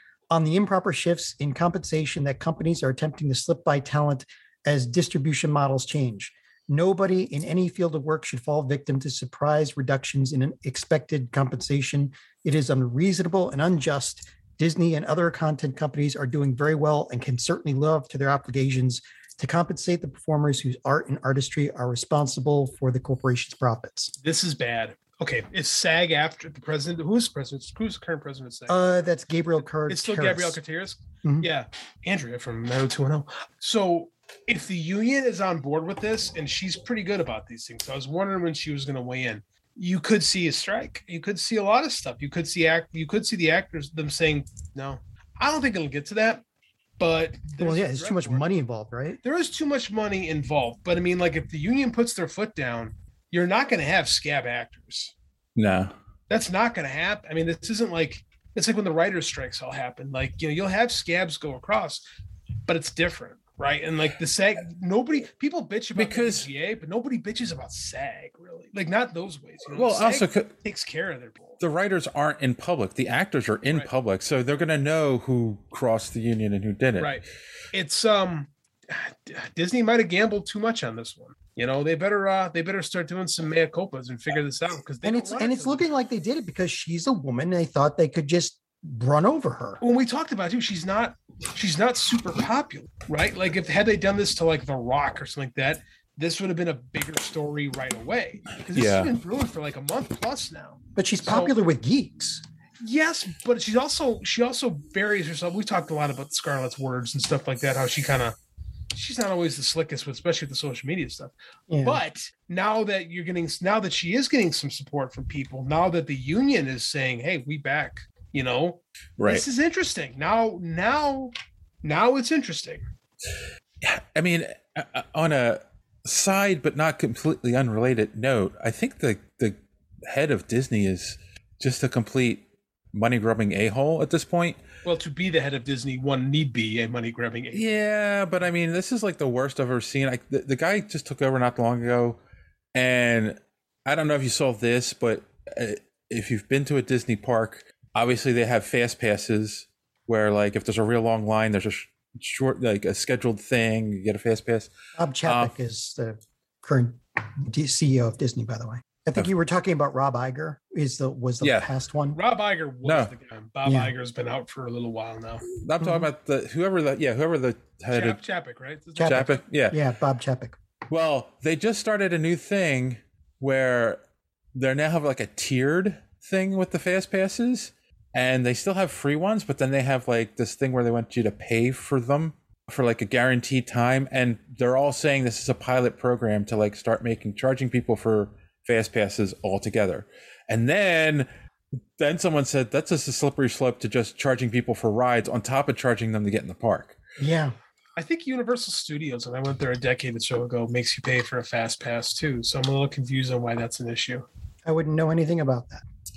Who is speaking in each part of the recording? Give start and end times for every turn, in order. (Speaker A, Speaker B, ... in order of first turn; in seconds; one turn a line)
Speaker A: 0.3-24.1
Speaker B: 24.2-28.8
Speaker A: 28.7-30.6
Speaker B: 29.9-46.4
Speaker A: 31.2-31.5
Speaker B: 47.0-48.5
Speaker A: 47.6-49.2
Speaker B: 49.2-55.1
Speaker C: 55.5-55.9
Speaker B: 56.3-62.0
Speaker B: 62.7-71.6
Speaker C: 66.0-66.5
Speaker C: 69.8-70.5
Speaker C: 71.6-77.2
Speaker B: 77.0-85.8
Speaker A: 85.0-89.8
Speaker B: 89.8-101.5
Speaker C: 98.7-99.1
Speaker A: 101.0-102.4
Speaker B: 102.8-108.3
Speaker B: 108.9-122.8
Speaker A: 111.7-112.0
Speaker C: 119.2-119.4
Speaker C: 123.8-134.6
Speaker B: 134.8-137.6
Speaker C: 137.5-142.2
Speaker C: 142.7-154.7
Speaker A: 154.9-162.2
Speaker C: 155.2-155.5
Speaker C: 161.4-161.7
Speaker B: 162.1-165.4
Speaker C: 162.8-163.1
Speaker A: 163.6-163.9
Speaker C: 165.5-168.2
Speaker A: 165.8-166.1
Speaker B: 167.9-169.4
Speaker A: 169.0-170.6
Speaker C: 169.1-169.8
Speaker C: 170.9-174.0
Speaker C: 174.5-191.3
Speaker C: 192.0-197.0
Speaker A: 197.2-197.5
Speaker B: 198.0-204.3
Speaker A: 204.6-205.8